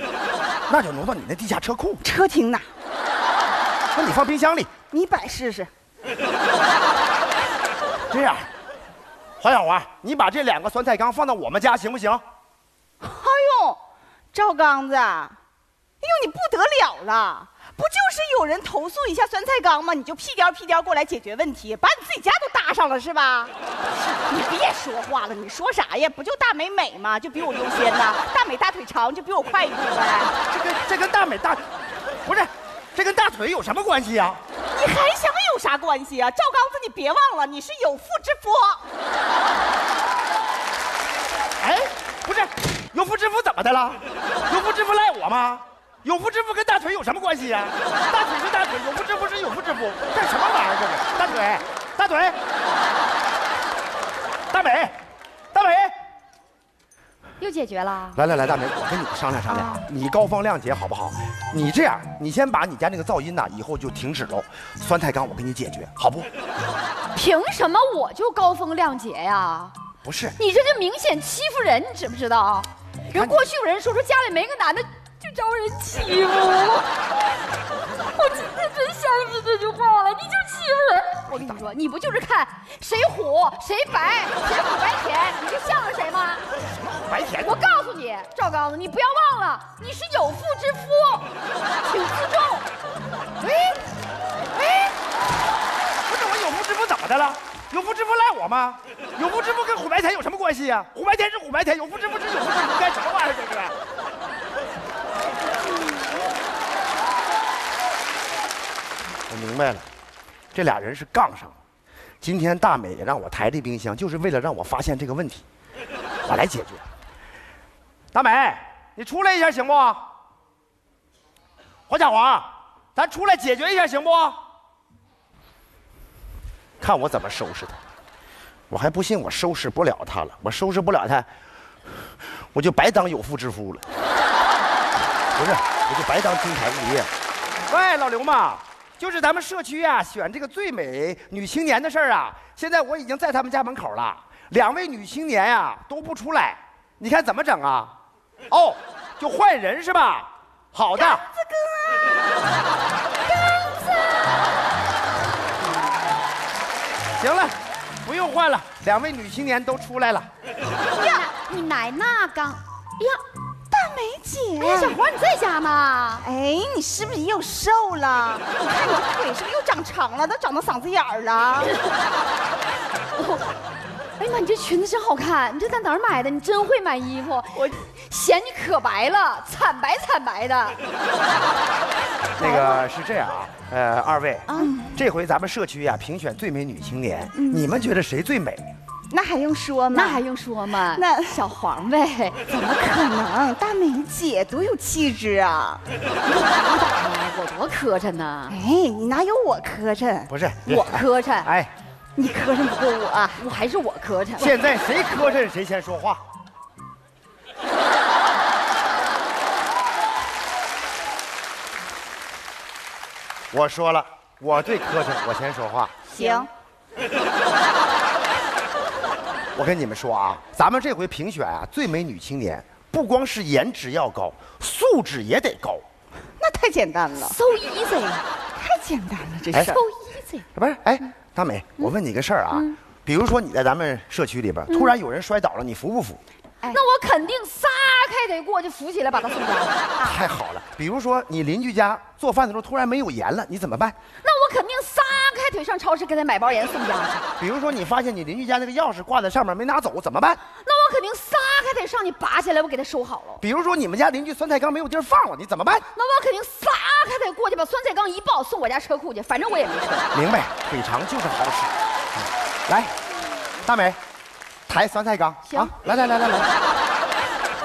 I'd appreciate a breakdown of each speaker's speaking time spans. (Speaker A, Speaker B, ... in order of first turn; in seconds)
Speaker A: 0.7-2.0, 3.9-4.7, 8.1-8.5, 9.4-12.2, 30.4-31.7, 32.2-34.4, 41.6-52.4, 54.5-55.0, 55.5-55.9, 58.1-66.3, 70.0-70.4, 73.1-73.4, 81.3-81.6, 86.7-87.6, 96.1-103.7, 109.3-109.8, 110.5-111.6, 112.2-115.4, 116.3-116.8, 118.1-120.0, 121.9-124.4, 126.8-127.8, 128.7-131.3, 132.5-133.8, 135.3-137.1, 137.7-147.9, 148.5-151.3, 157.2-160.3, 182.4-188.7, 200.3-201.7, 204.4-206.2, 213.5-215.9, 219.6-225.8, 229.5-229.8, 230.6-236.2, 240.0-243.9, 247.4-250.4, 253.4-255.9, 260.1-261.7, 262.2-262.9, 263.6-264.0, 264.7-266.5
Speaker B: 2.0-2.7, 4.9-5.7, 13.0-13.8, 14.3-15.4, 16.0-23.5, 24.3-30.4, 34.7-38.8, 150.9-152.2, 161.0-161.2, 163.7-165.0, 166.2-171.7, 184.6-185.0, 187.4-187.7, 189.1-190.3, 190.9-191.8, 192.5-195.8, 198.5-200.3, 202.2-203.4, 216.1-216.5, 226.4-227.3, 228.6-229.8, 240.0-240.2
Speaker C: 57.4-58.2, 59.5-59.8, 67.1-69.7, 70.4-76.9, 78.1-86.4, 87.4-92.7, 153.3-154.6, 160.9-163.2, 164.6-166.2, 173.2-173.5, 174.2-180.8, 189.9-192.4, 196.2-198.6, 200.7-201.5, 203.4-204.5, 216.1-216.5, 227.2-228.3, 229.6-230.4, 232.5-232.8, 236.7-239.8, 244.2-247.3, 250.6-253.4, 255.9-260.1, 265.4-265.7